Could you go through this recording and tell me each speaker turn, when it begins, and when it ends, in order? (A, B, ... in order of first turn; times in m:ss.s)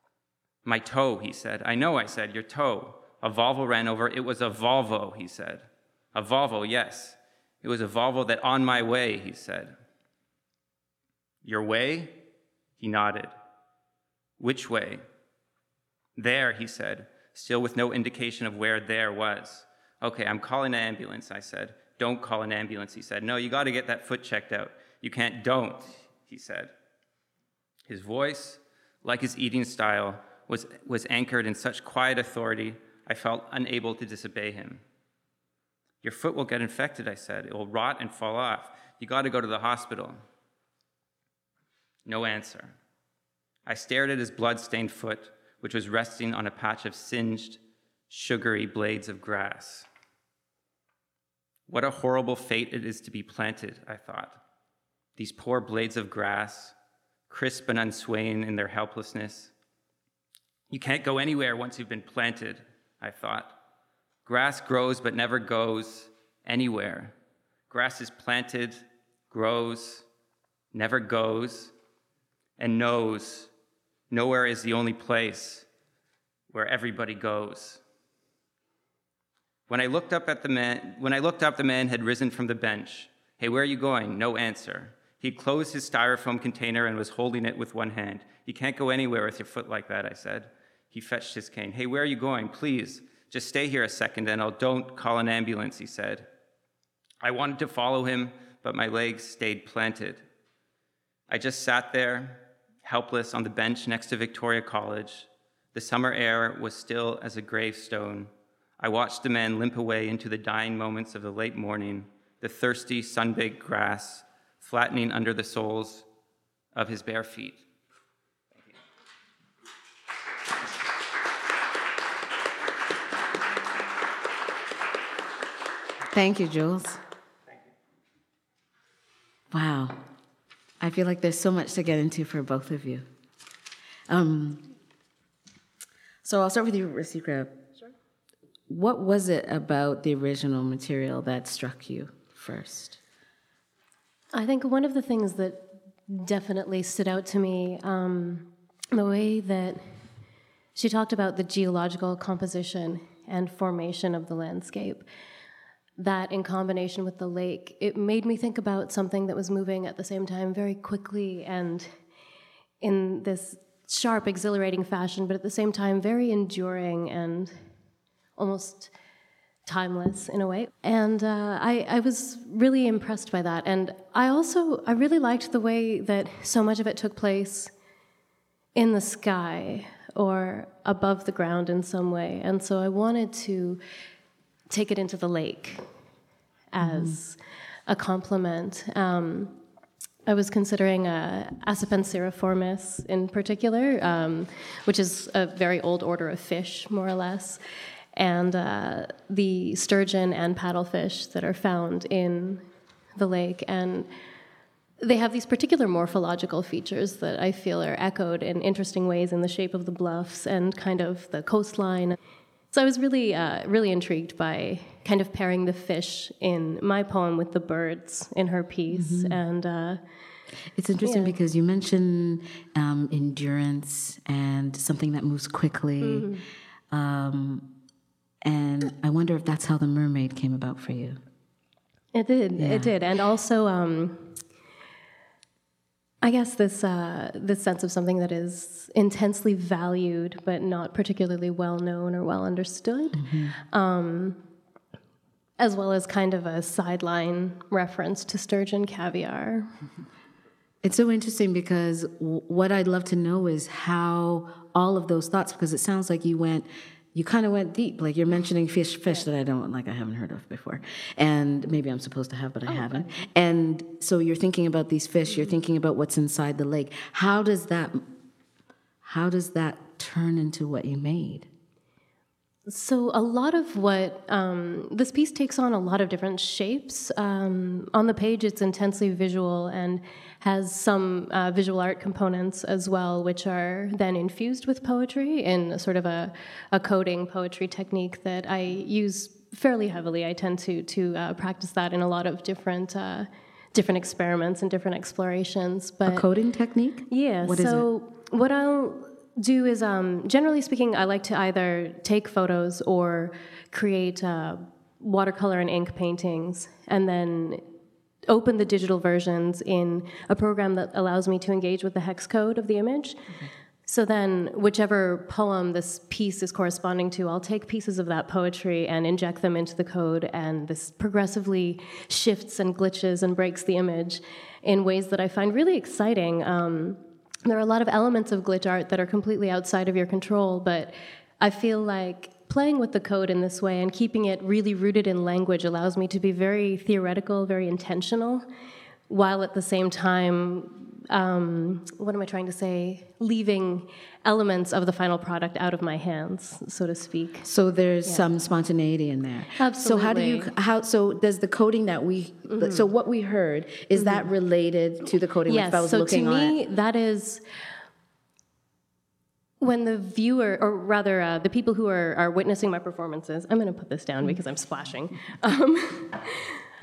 0:00.6-0:09.7 A
0:11.4-0:12.2 A
0:12.8-0:13.3 A
0:14.4-0:15.0 A
0:16.2-0:26.7 A
0:27.9-0:34.8 A
0:36.0-0:40.2 A
0:42.0-0:42.7 A
0:43.6-0:49.9 A
0:51.7-0:54.4 A
0:55.2-0:56.7 A
0:57.3-0:59.5 A
1:00.7-1:03.5 A
1:04.2-1:07.1 A
1:07.7-1:10.0 A
1:10.7-1:11.7 A
1:12.6-1:13.5 A
1:14.1-1:15.7 A
1:16.5-1:17.8 A
1:19.7-1:36.3 A
1:37.2-1:40.2 A
1:41.3-1:56.0 A
1:56.7-1:57.6 A
2:06.1-2:07.0 B
2:09.5-2:10.0 B
2:10.8-2:13.0 B
2:14.1-2:14.6 B
2:16.2-2:17.6 B
2:18.7-2:23.0 B
2:24.3-2:29.9 C
2:30.7-2:35.0 C
2:36.0-2:41.9 C
2:42.8-2:47.6 C
2:48.4-2:48.9 C
2:49.6-2:57.7 C
2:58.8-3:03.8 C
3:04.7-3:05.8 C
3:06.7-3:09.6 C
3:06.8-3:07.2 B
3:10.2-3:17.6 C
3:18.1-3:22.6 C
3:23.2-3:24.1 C
3:25.0-3:32.2 C
3:32.7-3:40.0 C
3:38.9-3:39.4 B
3:40.7-3:46.3 B
3:41.0-3:41.3 C
3:46.0-3:46.4 C
3:46.9-3:47.7 B
3:48.4-3:51.2 B
3:52.1-3:54.4 C
3:52.6-3:52.9 B
3:56.2-4:04.4 C
4:03.1-4:03.6 B
4:05.6-4:09.7 C
4:10.8-4:28.0 B
4:22.7-4:23.1 C
4:29.0-4:31.5 B
4:32.7-4:56.2 C
4:56.1-4:57.8 B
4:57.1-5:07.6 C
5:08.3-5:13.3 C
5:13.8-5:38.4 C
5:39.1-5:47.5 C
5:47.4-5:56.6 B
5:49.6-5:50.5 C
5:52.5-5:52.8 C
5:54.0-5:54.2 C
5:55.5-5:57.4 C
5:59.6-6:06.6 C